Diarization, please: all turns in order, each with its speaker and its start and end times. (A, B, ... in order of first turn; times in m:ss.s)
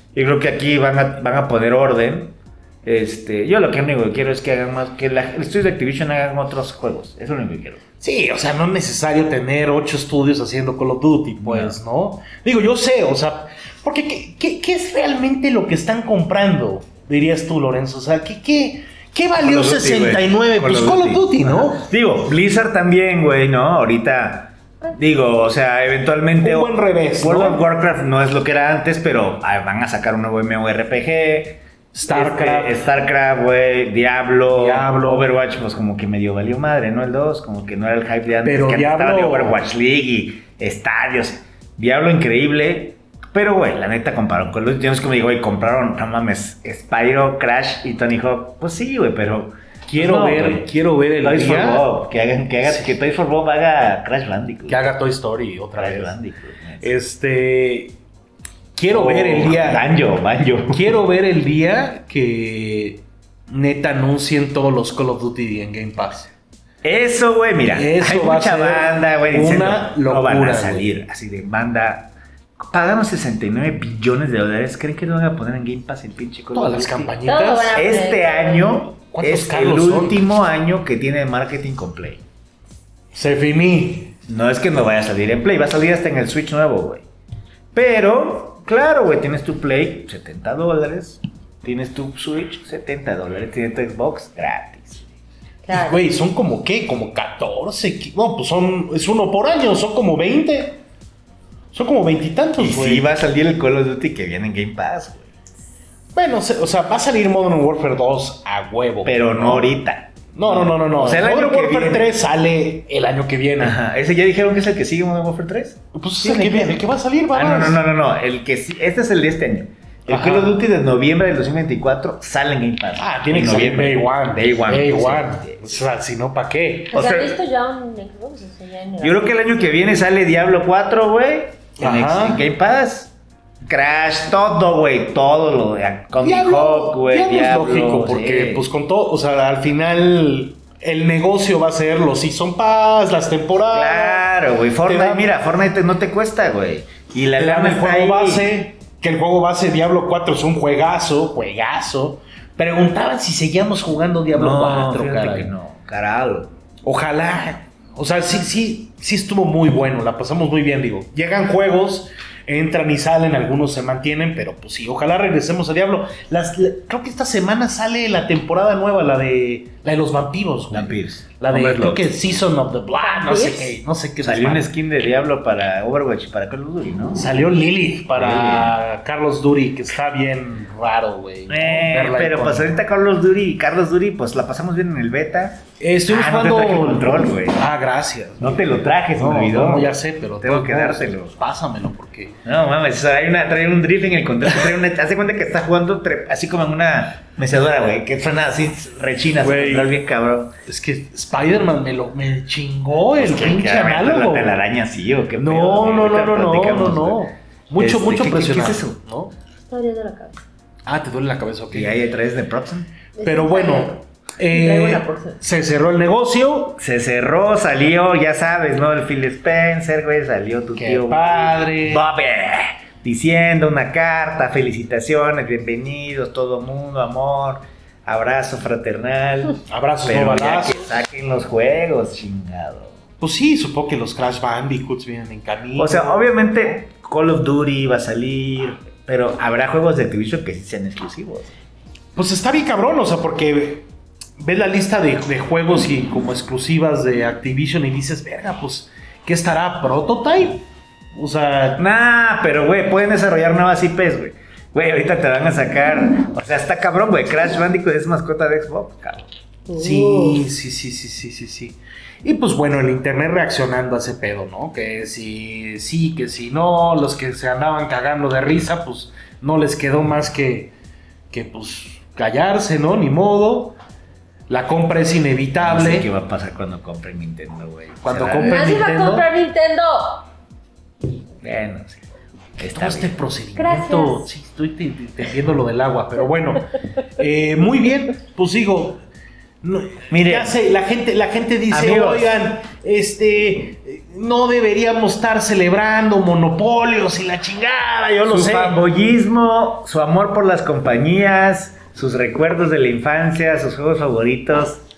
0:00.1-0:07.8 A
0:08.0-0:21.8 B
0:11.4-0:11.8 A
0:19.4-0:50.7 A
0:26.4-0:27.6 B
0:31.9-0:32.8 B
0:34.5-0:35.3 B
0:38.4-0:39.6 B
0:49.9-0:51.9 B
0:51.2-0:54.8 A
0:52.6-0:52.9 B
0:54.7-0:56.2 B
0:55.8-0:56.9 A
0:56.8-0:57.9 B
0:58.8-0:59.8 B
0:58.9-1:01.0 A
1:00.7-1:06.3 B
1:06.8-1:12.1 A
1:07.7-1:10.9 B
1:12.7-1:17.1 A
1:16.5-1:17.8 B
1:17.2-1:18.8 C
1:17.7-1:22.2 A
1:19.1-1:20.2 B
1:23.1-1:24.1 B
1:24.3-1:27.0 A
1:27.7-1:35.1 A
1:35.6-1:36.0 C
1:35.7-1:40.8 B
1:41.7-1:43.1 B
1:42.6-1:45.3 A
1:46.1-1:49.7 B
1:49.0-1:52.1 A
1:50.3-1:53.8 B
1:53.6-2:05.8 A
1:55.9-1:57.8 B
2:00.1-2:00.6 B
2:03.0-2:07.0 B
2:06.9-2:09.3 C
2:06.9-2:07.4 A
2:09.0-2:13.1 A
2:11.8-2:12.4 B
2:13.6-2:18.6 A
2:16.2-2:24.3 B
2:23.7-2:28.5 A
2:24.8-2:25.3 B
2:27.4-2:35.5 B
2:34.3-2:36.5 A
2:36.8-2:54.7 B
2:50.7-2:52.1 A
2:52.9-2:53.7 C
2:54.2-2:57.3 A
2:57.1-3:02.7 B
2:58.1-2:58.7 A
3:01.5-3:07.7 A
3:05.8-3:12.4 B
3:08.4-3:11.3 A
3:12.4-3:20.5 A
3:19.4-3:20.0 B
3:20.6-3:24.6 B
3:23.2-3:29.0 A
3:25.4-3:29.3 B
3:29.7-3:30.4 C
3:30.9-3:32.0 B
3:31.7-3:32.9 A
3:33.2-3:35.4 C
3:33.2-3:36.8 B
3:36.8-3:53.0 A
3:40.8-3:42.0 B
3:49.7-3:50.8 B
3:53.2-3:56.6 B
3:55.8-4:01.5 A
4:02.1-4:03.9 B
4:04.4-4:11.8 B
4:11.8-4:19.3 A
4:19.7-4:20.4 C
4:19.8-4:30.7 B
4:31.3-4:33.8 B
4:34.5-4:36.1 B
4:35.6-4:38.8 A
4:38.0-4:39.3 B
4:38.4-4:40.2 C
4:41.4-4:42.0 A
4:42.6-4:43.3 A
4:42.7-4:49.0 B
4:43.6-4:44.3 C
4:49.6-4:58.8 B
4:50.1-4:50.5 A
4:51.7-4:52.3 A
4:58.2-5:04.8 A